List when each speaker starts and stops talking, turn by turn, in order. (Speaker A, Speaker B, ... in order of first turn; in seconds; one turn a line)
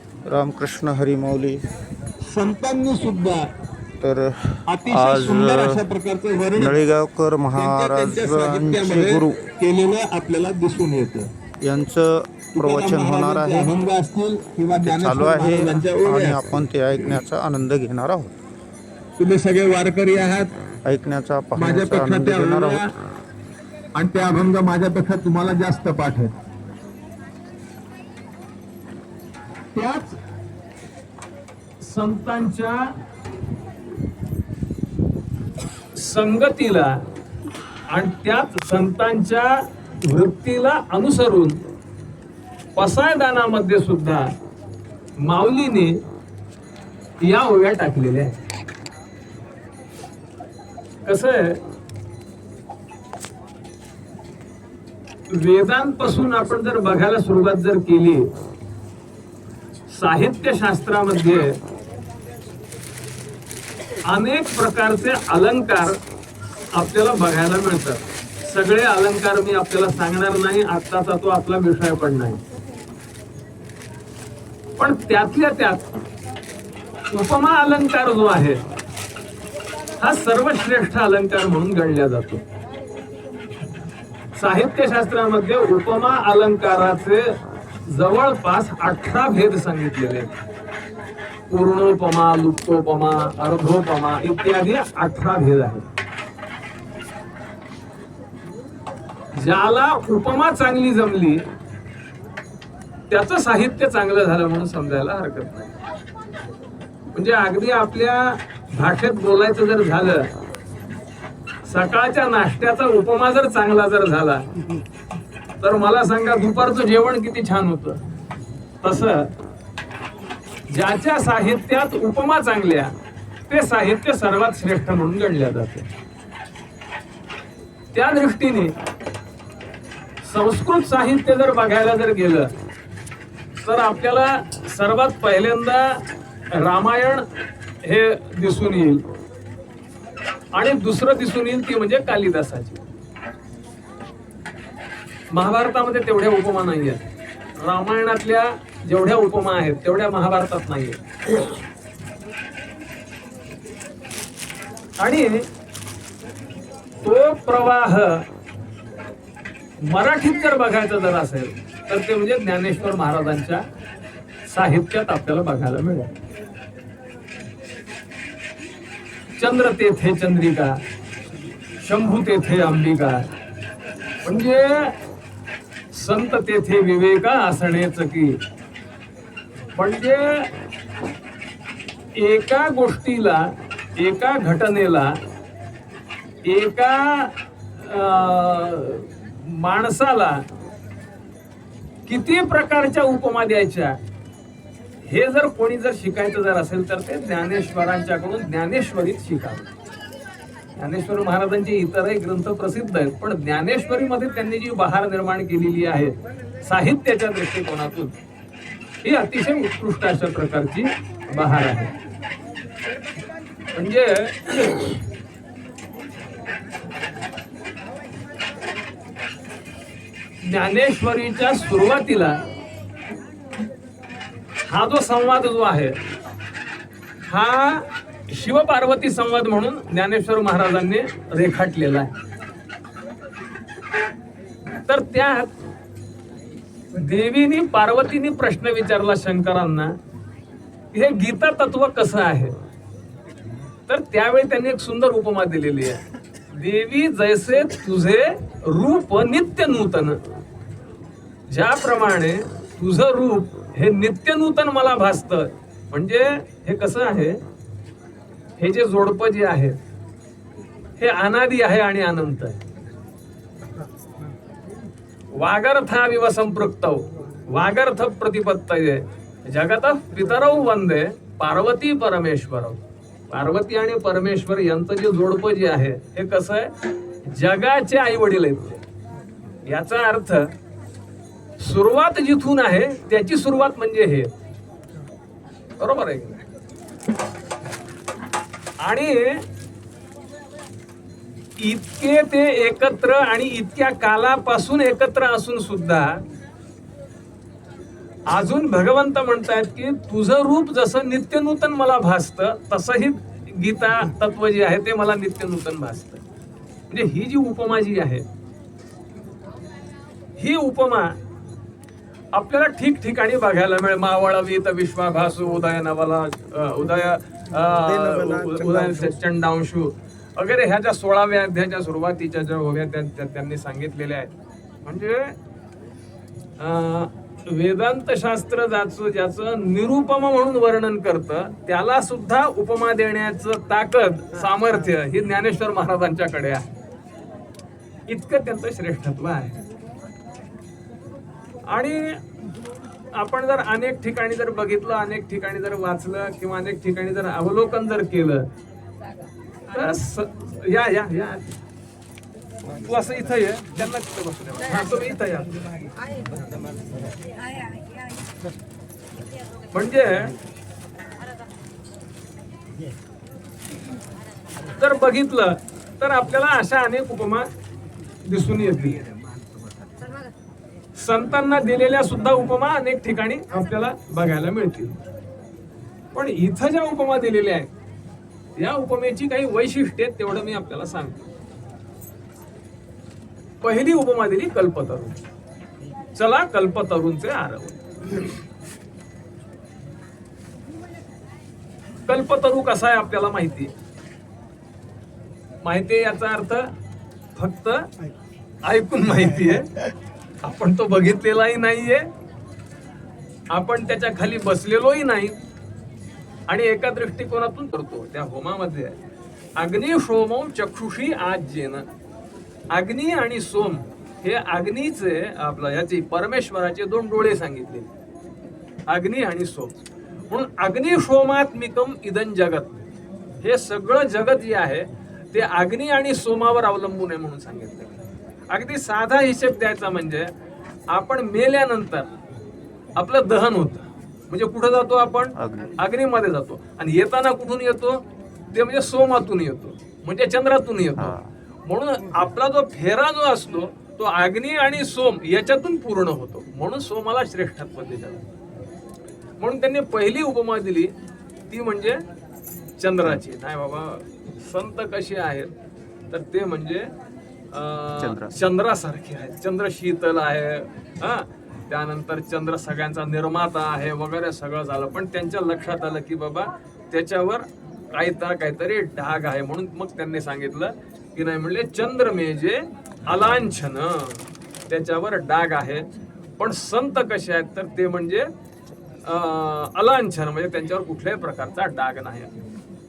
Speaker A: 0.3-1.6
Speaker B: 2.3-3.5
Speaker A: 4.0-5.8
Speaker B: 4.7-6.8
Speaker A: 6.6-9.4
Speaker B: 7.5-11.3
Speaker A: 11.6-13.7
Speaker B: 12.5-16.6
Speaker A: 14.8-18.3
Speaker B: 19.2-20.5
Speaker A: 20.8-22.9
Speaker B: 21.6-22.9
Speaker B: 23.9-26.3
Speaker B: 29.8-30.2
Speaker C: 31.8-32.9
Speaker C: 36.0-37.0
Speaker C: 37.9-41.6
Speaker C: 42.8-44.3
Speaker C: 45.2-46.0
Speaker C: 47.2-48.4
Speaker C: 51.0-51.6
Speaker C: 55.3-58.3
Speaker C: 59.9-61.6
Speaker C: 64.0-66.0
Speaker C: 66.8-72.4
Speaker C: 74.8-75.9
Speaker C: 77.1-78.6
Speaker C: 80.0-82.4
Speaker C: 84.4-87.3
Speaker C: 87.9-90.3
Speaker C: 91.5-95.9
Speaker C: 99.3-101.4
Speaker C: 103.1-105.8
Speaker C: 107.1-110.3
Speaker C: 111.7-114.5
Speaker C: 115.6-118.0
Speaker C: 118.8-119.3
Speaker C: 120.7-122.9
Speaker C: 123.5-125.9
Speaker C: 127.9-128.7
Speaker C: 130.2-132.5
Speaker C: 133.6-137.2
Speaker C: 137.8-139.0
Speaker C: 140.5-142.8
Speaker C: 145.3-147.0
Speaker C: 147.6-151.4
Speaker C: 155.0-155.5
Speaker C: 157.0-158.2
Speaker C: 159.8-163.6
Speaker C: 164.4-166.1
Speaker C: 169.4-170.8
Speaker C: 171.8-173.3
Speaker C: 174.2-174.9
Speaker C: 175.9-178.4
Speaker C: 179.8-180.5
Speaker C: 182.2-185.2
Speaker C: 186.4-190.4
Speaker C: 192.1-194.0
Speaker C: 195.0-199.7
Speaker C: 200.7-208.1
Speaker C: 209.0-211.9
Speaker C: 213.7-215.0
Speaker C: 220.4-222.4
Speaker C: 224.6-226.0
Speaker C: 227.2-232.1
Speaker C: 234.9-235.5
Speaker C: 236.9-240.0
Speaker C: 240.9-242.6
Speaker C: 243.9-250.2
Speaker C: 251.5-257.4
Speaker C: 258.6-259.8
Speaker C: 261.0-262.6
Speaker C: 265.3-278.8
Speaker C: 279.7-280.5
Speaker C: 281.6-284.3
Speaker C: 285.8-286.5
Speaker C: 288.8-289.5
Speaker C: 291.6-296.2
Speaker C: 298.3-306.2
Speaker C: 306.9-308.2
Speaker C: 310.4-311.2
Speaker C: 312.3-324.3
Speaker A: 318.0-319.1
Speaker C: 324.9-325.4
Speaker C: 326.6-336.7
Speaker C: 338.1-339.6
Speaker C: 341.7-342.2
Speaker C: 343.1-348.5
Speaker C: 349.7-351.6
Speaker C: 352.7-355.6
Speaker C: 359.7-360.4
Speaker C: 364.8-367.5
Speaker C: 368.2-369.0
Speaker C: 371.0-375.0
Speaker C: 376.1-377.7
Speaker C: 378.6-381.3
Speaker C: 383.6-385.2
Speaker C: 386.1-388.4
Speaker C: 392.1-393.7
Speaker C: 395.6-396.7
Speaker C: 397.4-397.9
Speaker C: 398.6-399.8
Speaker C: 400.4-402.1
Speaker C: 403.5-405.4
Speaker C: 406.5-409.0
Speaker C: 409.6-411.9
Speaker C: 412.7-417.9
Speaker C: 418.9-422.8
Speaker C: 423.4-428.0
Speaker C: 428.5-430.3
Speaker C: 430.9-432.1
Speaker C: 433.0-448.3
Speaker A: 435.4-435.8
Speaker A: 441.0-441.3
Speaker C: 449.4-450.9
Speaker C: 451.5-452.0
Speaker C: 452.8-455.5
Speaker C: 456.1-456.9
Speaker C: 457.5-478.3
Speaker A: 458.0-458.4
Speaker C: 479.0-482.4